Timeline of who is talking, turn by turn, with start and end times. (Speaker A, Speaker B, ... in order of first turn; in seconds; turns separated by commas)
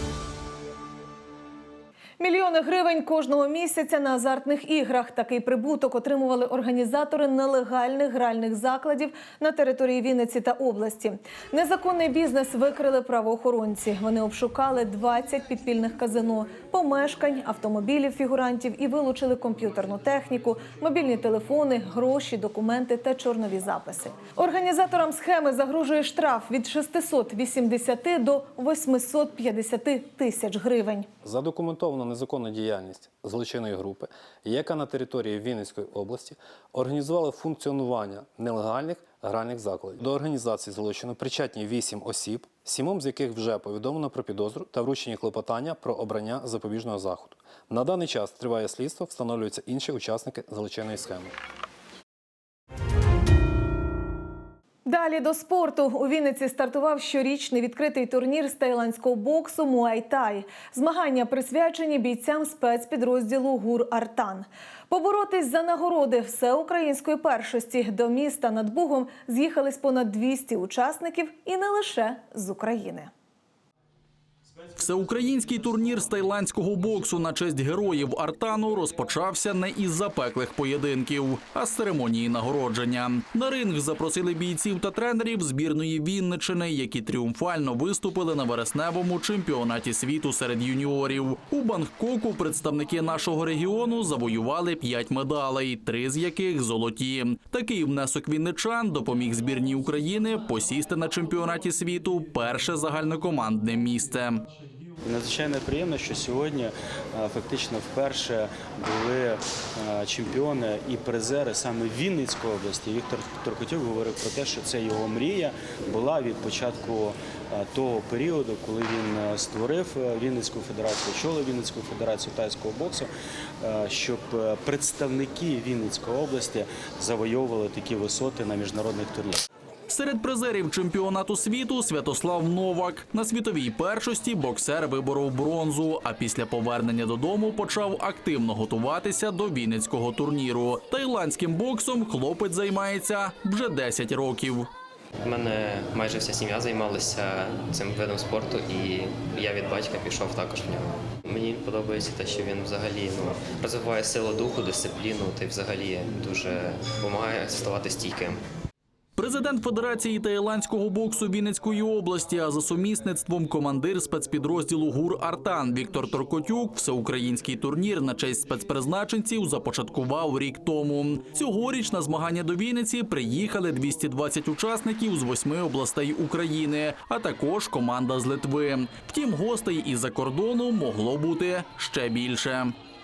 Speaker A: 2.2-31.1, Speaker B: 31.3-51.3, Speaker A: 54.8-73.1, Speaker C: 74.8-104.5, Speaker D: 105.0-123.1, Speaker D: 123.6-129.4, Speaker C: 129.9-144.7, Speaker E: 145.2-158.4, Speaker C: 159.2-182.7